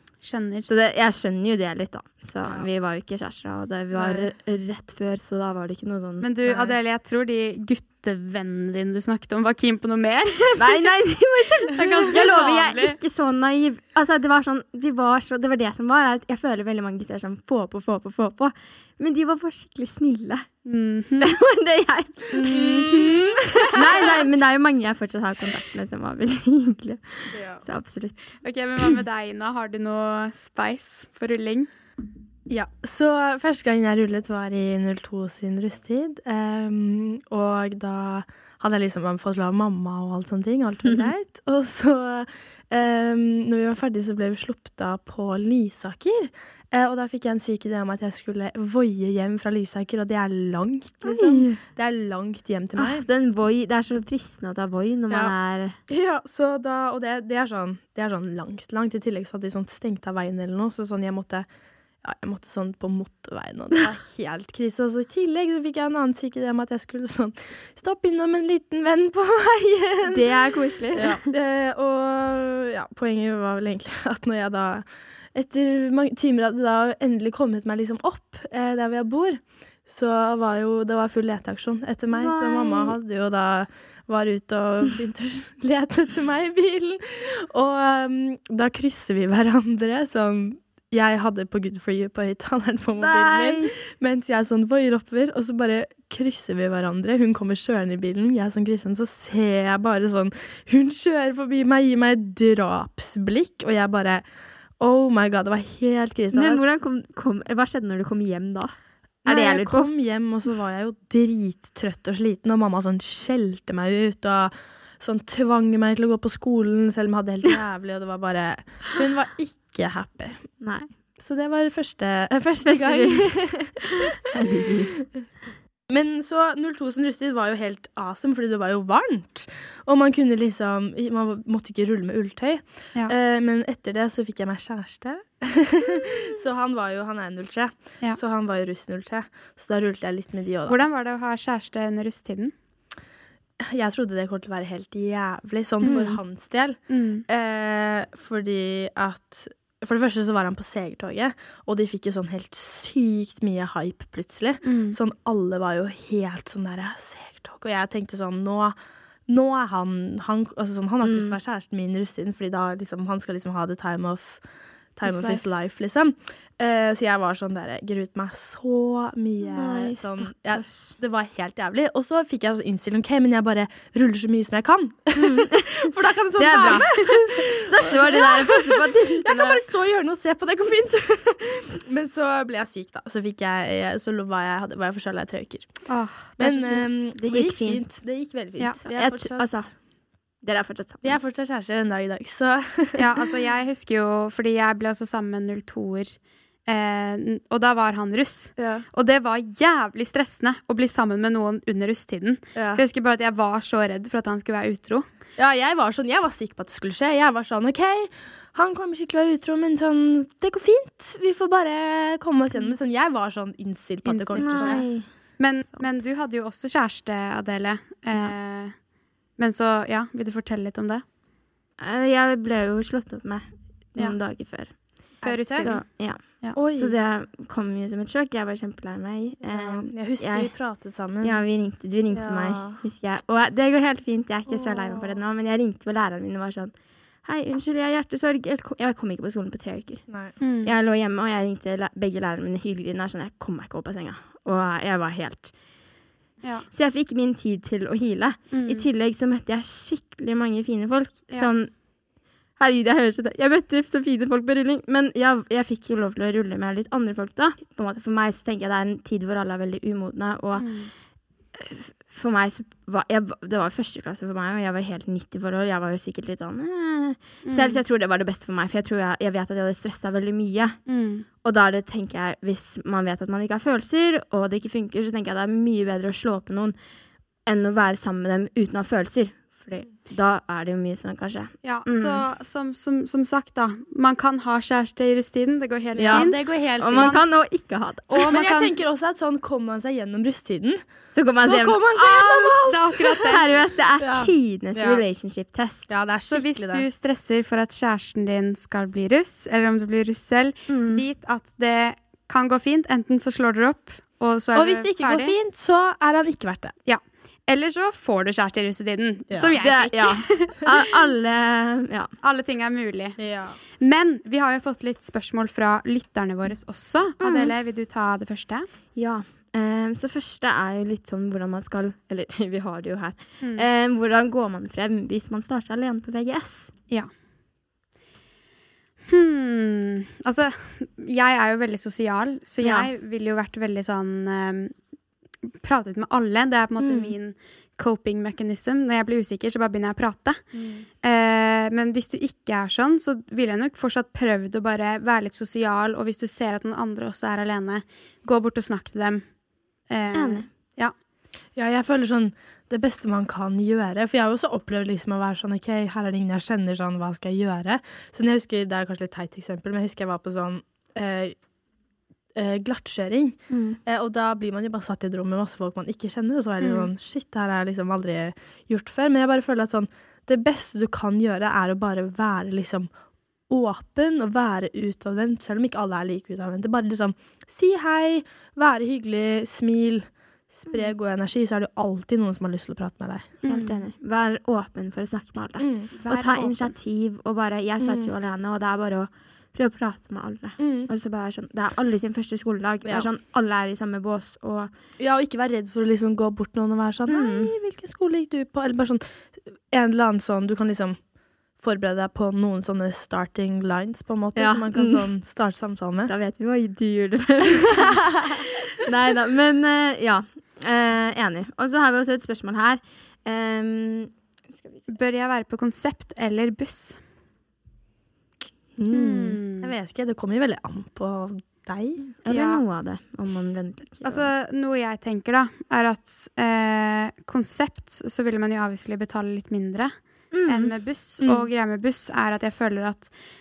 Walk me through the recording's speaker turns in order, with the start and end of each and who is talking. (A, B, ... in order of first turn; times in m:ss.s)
0:00.2-0:00.7 A
0:00.7-0:06.2 B
0:03.9-0:04.3 C
0:06.2-0:10.9 A
0:06.4-0:06.7 C
0:10.6-0:20.5 B
0:11.7-0:13.0 A
0:20.6-0:21.3 A
0:21.2-0:28.3 B
0:22.4-0:24.0 C
0:22.9-0:23.1 A
0:27.3-0:27.6 C
0:28.4-0:31.7 A
0:32.5-0:53.0 C
0:40.8-0:41.1 B
0:51.0-0:51.6 B
0:52.8-0:55.8 B
0:55.9-1:01.5 C
1:02.0-1:10.3 C
1:10.0-1:11.2 B
1:10.9-1:44.2 C
1:22.1-1:23.0 B
1:33.0-1:33.7 B
1:44.8-1:46.6 C
1:46.3-1:49.9 B
1:49.2-2:00.5 C
2:00.6-2:00.9 B
2:01.2-2:03.8 C
2:02.6-2:04.9 B
2:05.9-2:20.8 C
2:20.7-2:22.5 A
2:23.6-2:38.8 C
2:25.8-2:26.1 A
2:25.8-2:26.2 B
2:26.9-2:27.2 A
2:34.6-2:35.0 A
2:39.3-2:44.4 C
2:41.0-2:41.4 B
2:45.0-3:05.9 C
2:45.0-2:45.4 A
2:49.5-2:50.9 B
2:55.2-2:59.6 B
3:05.9-3:06.4 A
3:06.4-3:09.7 C
3:06.4-3:07.8 B
3:08.8-3:09.7 B
3:10.4-3:11.2 B
3:11.0-3:13.3 C
3:13.0-3:25.0 A
3:18.6-3:18.8 C
3:22.5-3:22.8 C
3:25.4-3:34.8 C
3:34.0-3:38.8 A
3:34.4-3:35.1 B
3:39.4-3:41.0 A
3:41.8-3:50.5 B
3:45.2-3:45.7 C
3:45.2-3:45.8 A
3:46.5-3:47.0 C
3:49.4-3:51.4 C
3:51.2-3:56.7 B
3:52.1-3:52.8 C
3:54.5-3:55.2 C
3:57.2-4:00.0 B
4:00.1-4:00.4 C
4:00.4-4:00.7 A
4:00.6-4:05.5 B
4:06.4-4:06.7 A
4:06.7-4:11.7 B
4:08.5-4:08.8 A
4:12.6-4:20.7 B
4:20.6-4:20.9 A
4:21.5-4:30.8 B
4:27.4-4:27.8 A
4:30.9-4:31.2 A
4:31.4-4:36.8 B
4:37.4-4:42.2 B
4:41.6-4:47.2 A
4:45.9-4:47.2 C
4:46.0-4:48.3 B
4:48.1-4:48.7 A
4:48.2-4:50.8 C
4:51.1-4:52.6 B
4:51.3-4:53.4 C
4:52.3-4:53.4 A
4:53.2-4:55.9 B
4:54.0-4:55.0 C
4:55.9-4:56.8 C
4:56.3-5:05.4 A
5:00.7-5:01.0 B
5:04.5-5:06.8 C
5:06.8-5:10.7 A
5:09.6-5:12.1 B
5:12.2-5:13.2 A
5:13.2-5:13.6 C
5:13.8-5:18.7 A
5:17.2-5:17.5 B
5:19.0-5:26.7 B
5:23.4-5:23.7 A
5:29.1-5:34.7 A
5:32.6-5:32.9 B
5:35.6-5:49.3 A
5:49.9-5:50.9 A
5:50.1-5:50.5 B
5:51.6-6:01.4 C
6:02.3-6:12.9 C
6:03.5-6:03.8 B
6:06.6-6:06.9 A
6:13.5-6:23.6 C
6:23.4-6:23.7 A
6:23.4-6:34.7 B
6:25.6-6:25.9 C
6:26.0-6:26.7 A
6:27.8-6:28.1 C
6:30.6-6:30.9 C
6:35.0-6:41.0 C
6:37.1-6:37.5 B
6:41.6-6:46.1 C
6:44.4-6:45.0 B
6:46.0-6:54.9 B
6:54.9-6:57.0 A
6:58.8-6:59.4 B
6:58.9-6:59.7 A
6:59.6-7:02.0 C
7:02.2-7:04.3 B
7:02.3-7:02.6 A
7:04.0-7:09.9 A
7:10.3-7:10.7 B
7:10.5-7:13.1 A
7:11.2-7:11.5 C